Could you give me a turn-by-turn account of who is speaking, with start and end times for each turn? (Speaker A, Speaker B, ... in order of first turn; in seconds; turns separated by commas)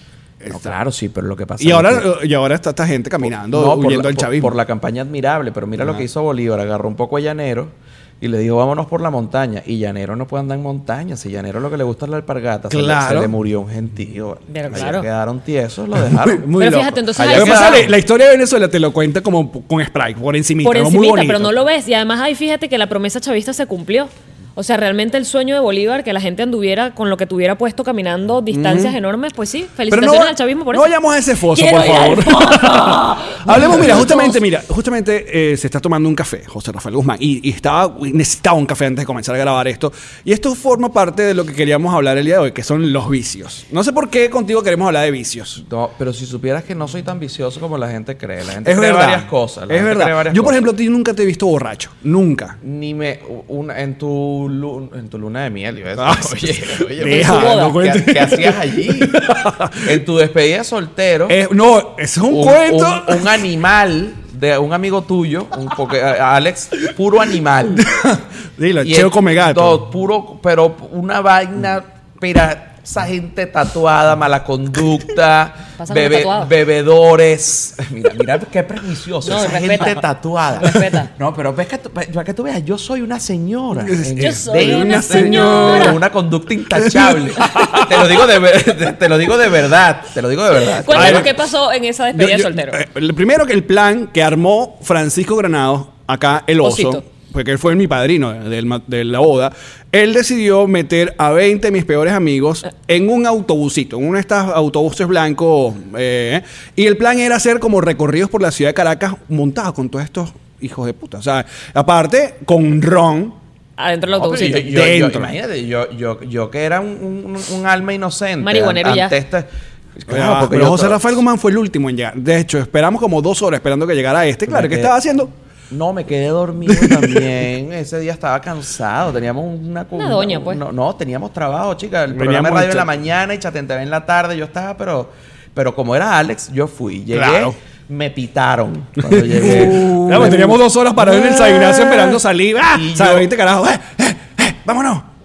Speaker A: 0.4-0.8, Speaker B: 0.5-2.1, Speaker A: 1.6-4.5, Speaker B: 3.2-18.0, Speaker A: 5.8-6.0, Speaker A: 12.7-13.3, Speaker C: 14.5-15.1, Speaker A: 16.0-21.6, Speaker C: 16.6-17.9, Speaker C: 20.6-30.9, Speaker A: 28.5-29.0, Speaker A: 29.9-45.6, Speaker C: 31.5-34.4, Speaker B: 45.6-50.7, Speaker A: 48.6-52.6, Speaker B: 52.6-59.2, Speaker A: 56.0-60.0, Speaker C: 57.1-57.8, Speaker B: 59.8-61.4, Speaker A: 61.3-63.5, Speaker B: 62.3-67.8, Speaker A: 67.8-69.8, Speaker B: 68.8-91.3, Speaker C: 75.8-76.5, Speaker C: 79.2-81.1, Speaker A: 83.9-86.0, Speaker C: 84.0-86.0, Speaker A: 86.8-88.3, Speaker C: 90.8-92.8, Speaker A: 90.9-91.3, Speaker A: 92.1-113.4, Speaker C: 96.6-97.0, Speaker C: 113.8-114.7, Speaker B: 114.1-121.2, Speaker A: 114.6-115.4, Speaker C: 118.4-119.2, Speaker A: 120.1-125.3, Speaker B: 124.5-125.0, Speaker B: 125.7-143.3, Speaker A: 126.7-127.2, Speaker C: 130.0-130.6, Speaker A: 132.1-132.9, Speaker A: 137.1-137.6, Speaker A: 139.1-145.1